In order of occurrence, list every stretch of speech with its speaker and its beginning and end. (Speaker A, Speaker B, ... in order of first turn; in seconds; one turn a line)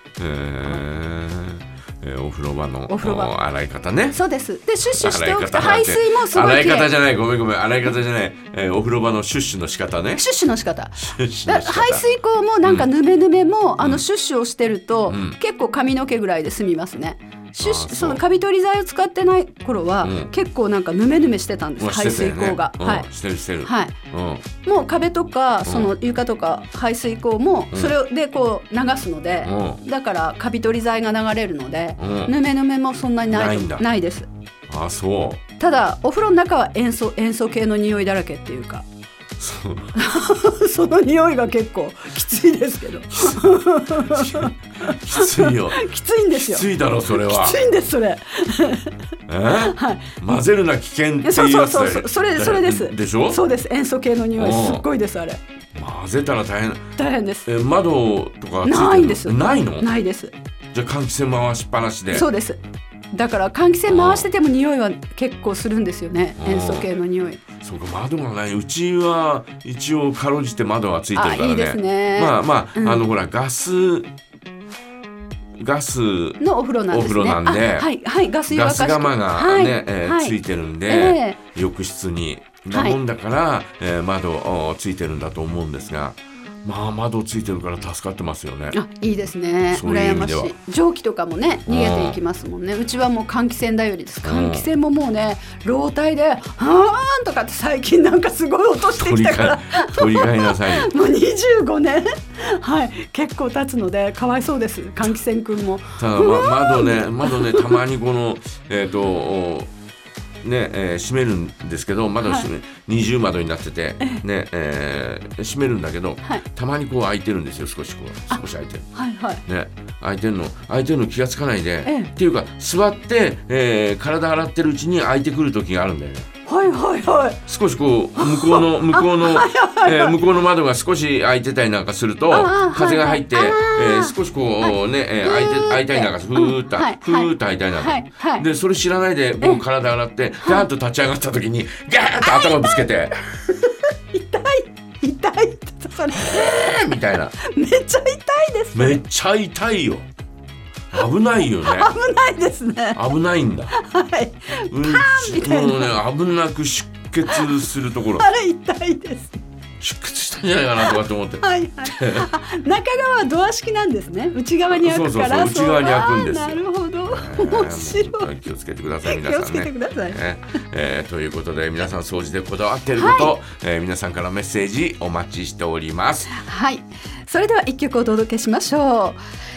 Speaker A: 0.2-4.2
Speaker B: 2.9-3.4
Speaker B: 4.1-6.9
Speaker A: 4.9-10.2
Speaker B: 10.2-23.1
Speaker A: 11.0-12.0
Speaker A: 13.8-14.0
Speaker A: 15.1-15.4
Speaker A: 17.6-18.2
Speaker A: 20.0-20.3
Speaker A: 21.8-24.5
Speaker B: 23.6-23.9
Speaker B: 24.6-34.3
Speaker A: 25.6-25.9
Speaker A: 29.4-29.8
Speaker A: 32.0-32.3
Speaker A: 33.3-33.9
Speaker A: 34.7-35.4
Speaker B: 35.6-38.9
Speaker A: 39.4-39.9
Speaker B: 40.0-50.2
Speaker A: 43.3-47.6
Speaker A: 49.3-53.4
Speaker B: 51.2-55.4
Speaker A: 54.4-54.9
Speaker A: 55.8-56.9
Speaker B: 57.0-57.5
Speaker A: 57.5-59.9
Speaker B: 58.6-60.3
Speaker A: 60.7-62.3
Speaker B: 62.1-62.6
Speaker B: 63.1-67.4
Speaker A: 63.9-64.3
Speaker A: 66.4-66.9
Speaker A: 67.6-74.1
Speaker B: 71.2-73.1
Speaker A: 75.6-77.9
Speaker B: 76.4-81.4
Speaker A: 78.5-88.8
Speaker B: 82.7-83.0
Speaker B: 88.7-107.8
Speaker A: 89.7-90.5
Speaker A: 91.7-92.2
Speaker A: 94.2-94.7
Speaker A: 98.8-100.9
Speaker A: 106.0-109.7
Speaker A: 110.4-118.9
Speaker B: 112.2-112.5
Speaker B: 118.3-119.4
Speaker A: 119.5-126.3
Speaker B: 121.8-122.1
Speaker B: 126.5-127.4
Speaker A: 127.5-143.2
Speaker B: 128.2-130.2
Speaker B: 132.3-138.5
Speaker B: 140.4-140.7
Speaker B: 142.2-149.0
Speaker A: 146.2-147.3
Speaker A: 148.8-150.1
Speaker A: 150.9-151.9
Speaker B: 151.6-153.0
Speaker A: 152.9-153.8
Speaker B: 153.7-155.9
Speaker A: 154.7-158.3
Speaker B: 158.2-159.3
Speaker A: 159.8-162.3
Speaker B: 160.8-168.3
Speaker A: 164.7-176.3
Speaker B: 169.0-170.2
Speaker B: 173.0-173.3
Speaker B: 176.3-179.2